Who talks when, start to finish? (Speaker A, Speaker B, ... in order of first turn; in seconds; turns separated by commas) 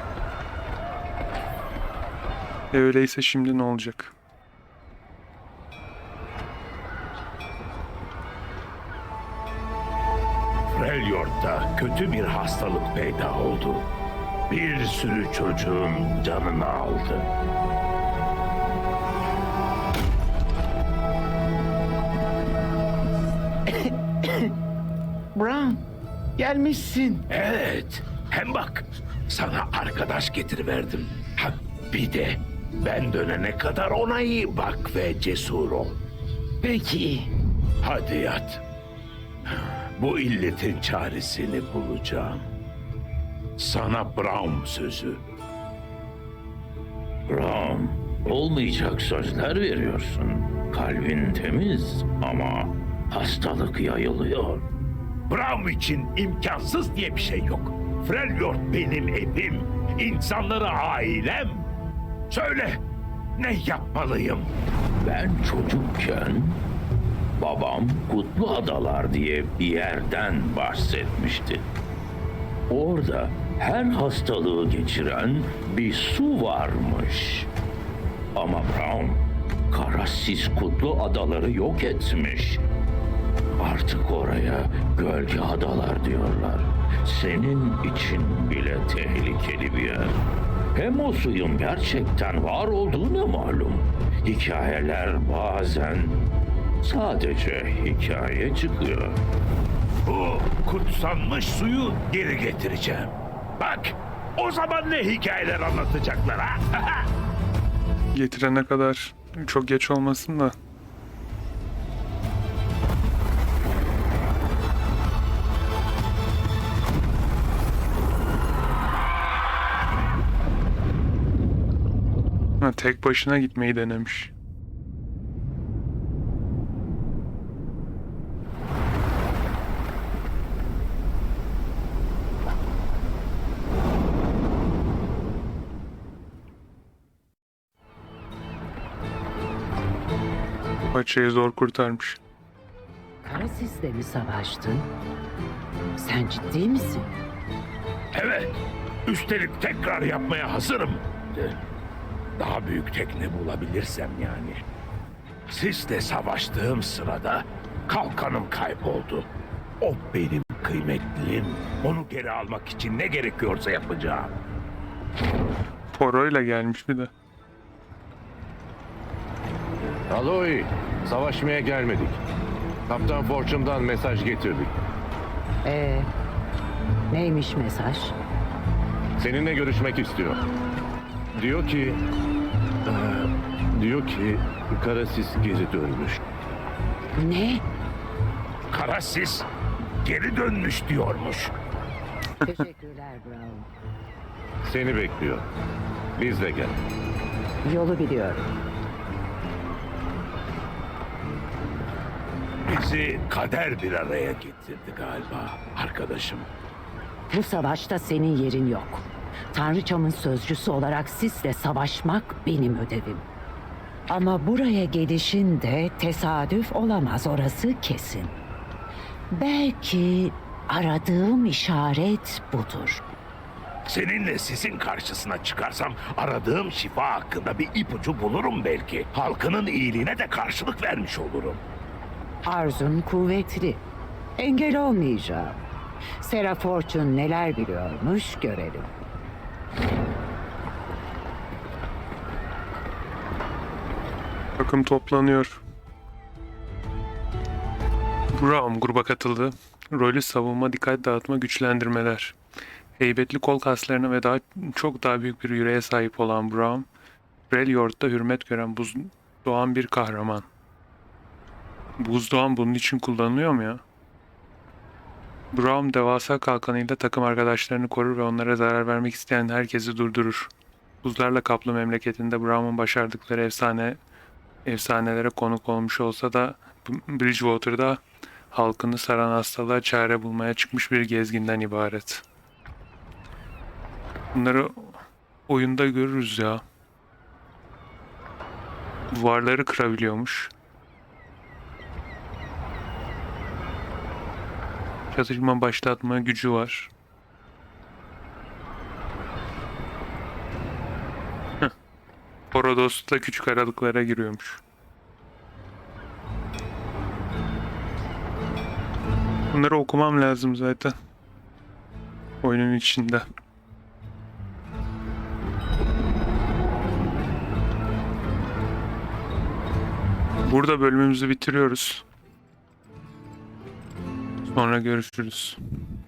Speaker A: 2.7-4.1, Speaker B: 10.8-13.9, Speaker B: 14.5-16.1, Speaker C: 16.0-17.3, Speaker D: 23.7-24.5, Speaker D: 25.4-25.8, Speaker D: 26.4-27.2, Speaker B: 27.3-36.0, Speaker D: 36.6-37.3, Speaker B: 37.8-38.6, Speaker B: 39.5-42.4, Speaker B: 43.6-45.2, Speaker C: 47.3-54.6, Speaker B: 55.3-61.7, Speaker B: 62.3-62.8, Speaker B: 63.4-64.5, Speaker C: 65.0-66.6, Speaker C: 67.4-71.7, Speaker C: 72.7-77.5, Speaker C: 78.4-82.6, Speaker C: 83.6-90.2, Speaker C: 90.8-96.2, Speaker C: 96.8-99.2, Speaker B: 100.1-107.0, Speaker A: 108.1-110.5, Speaker A: 122.6-124.3, Speaker A: 140.9-142.2, Speaker D: 143.2-144.9, Speaker D: 146.0-147.1, Speaker B: 148.1-151.6, Speaker B: 152.4-154.6, Speaker B: 155.5-159.3, Speaker B: 159.8-164.3, Speaker A: 165.9-167.1, Speaker E: 170.1-172.2, Speaker E: 172.9-174.7, Speaker D: 175.6-176.1, Speaker D: 177.1-178.2, Speaker E: 179.2-180.4, Speaker E: 181.4-182.0, Speaker E: 182.9-186.2, Speaker D: 187.2-187.6, Speaker B: 188.7-189.5, Speaker B: 190.0-191.5, Speaker D: 192.4-193.7, Speaker E: 194.7-195.5, Speaker E: 196.2-196.8, Speaker D: 197.7-198.5, Speaker B: 202.7-206.5, Speaker D: 207.3-213.3, Speaker D: 214.1-218.4, Speaker D: 219.3-223.0, Speaker B: 223.9-231.6, Speaker D: 232.5-233.8, Speaker D: 234.4-235.6, Speaker D: 236.2-238.9, Speaker A: 244.6-245.6, Speaker A: 248.3-252.4, Speaker A: 253.0-256.9, Speaker A: 257.5-260.5, Speaker A: 262.0-263.8, Speaker A: 265.5-270.5, Speaker A: 271.0-274.0, Speaker A: 274.6-282.2, Speaker A: 284.3-286.6, Speaker A: 289.1-290.5, Speaker A: 295.1-296.9, Speaker A: 302.5-304.6, Speaker A: 309.5-310.9, Speaker A: 312.4-313.3, Speaker A: 320.4-322.1, Speaker A: 324.4-325.6